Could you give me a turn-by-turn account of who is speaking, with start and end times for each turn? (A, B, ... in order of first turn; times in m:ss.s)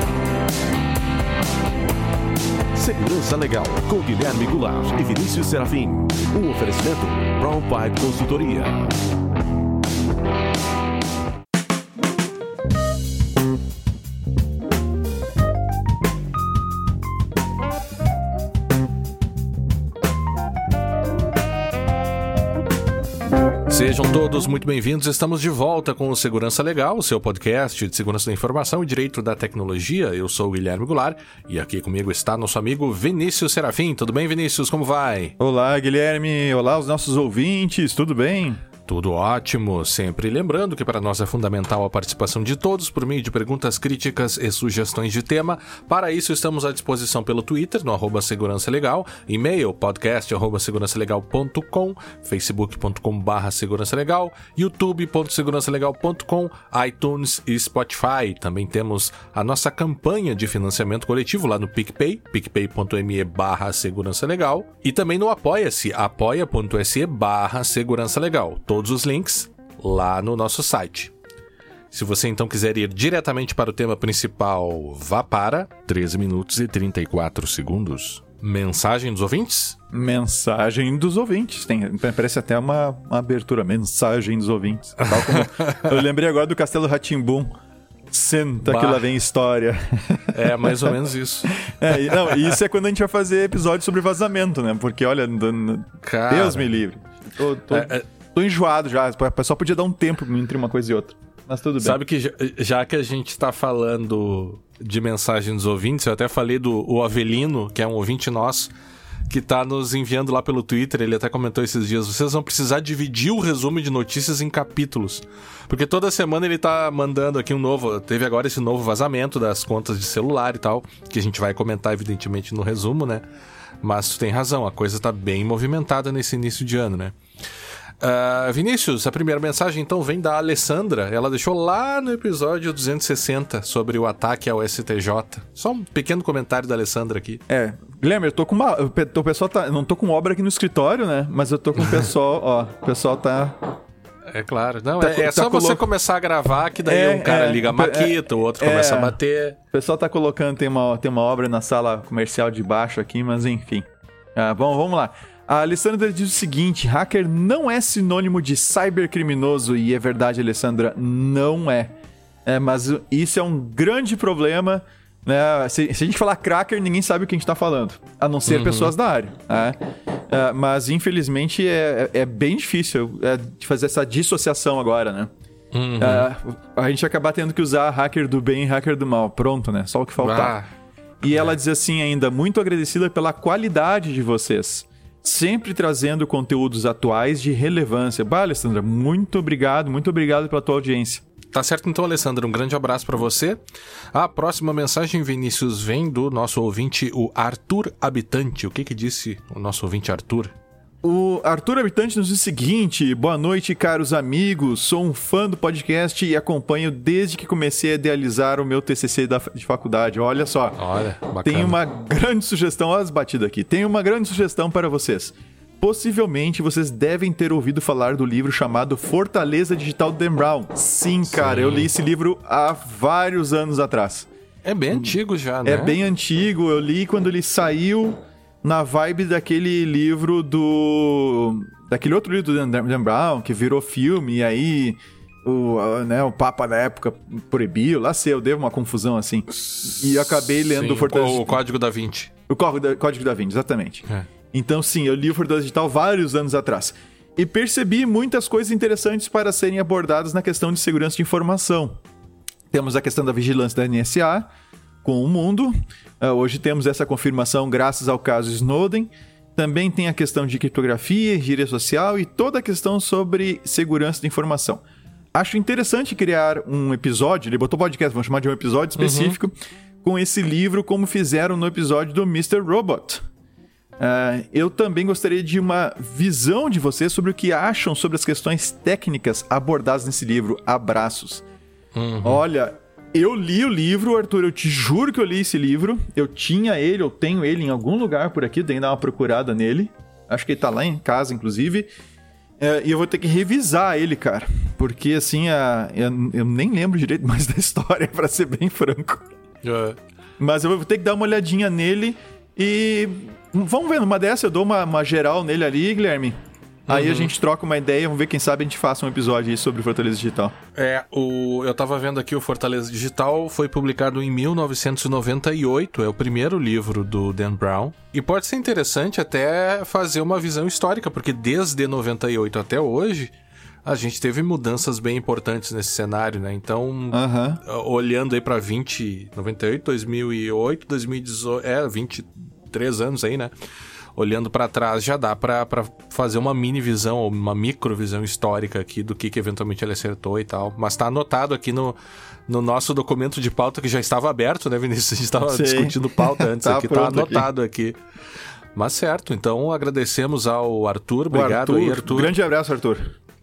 0:02.8-0:08.9 A
0:23.7-0:35.4 B
0:35.4-0:38.6 C
0:38.9-1:11.1 B
1:11.9-1:19.8 B
1:19.9-1:27.6 C
1:25.0-1:25.9 B
1:28.1-1:31.0 C
1:28.6-1:29.1 B
1:30.3-1:32.4 B
1:31.5-1:42.0 C
1:36.0-1:36.7 B
1:37.7-1:38.1 B
1:41.8-1:48.7 B
1:49.3-2:03.2 B
2:03.8-2:07.2 B
2:08.0-2:17.4 B
2:17.5-2:23.8 C
2:24.3-2:29.6 B
2:25.0-2:25.9 C
2:26.8-2:29.2 C
2:29.7-2:41.9 C
2:42.5-2:55.3 C
2:48.5-2:48.9 B
2:55.7-2:56.3 B
2:56.0-3:00.6 C
3:00.2-3:00.7 B
3:01.2-3:11.2 C
3:11.5-3:13.6 B
3:14.1-3:20.5 B
3:21.0-3:30.8 C
3:30.8-3:31.8 B
3:31.4-3:44.3 C
3:41.3-3:41.9 B
3:44.6-3:46.0 B
3:44.9-4:01.6 C
3:59.6-4:02.3 B
4:02.5-4:12.0 C
4:12.7-4:14.5 C
4:15.0-4:24.8 C
4:25.3-4:33.2 C
4:29.0-4:29.4 B
4:34.0-4:41.4 C
4:42.0-4:42.4 B
4:42.2-4:51.9 C
4:52.6-4:59.3 C
4:59.6-5:00.0 B
5:00.4-5:06.4 C
5:06.9-5:07.3 B
5:06.9-5:10.5 C
5:10.8-5:23.3 B
5:23.8-5:33.5 B
5:27.1-5:27.6 C
5:34.2-5:42.0 B
5:42.5-5:48.0 B
5:45.4-5:47.5 C
5:48.8-5:52.3 B
5:51.3-5:53.1 C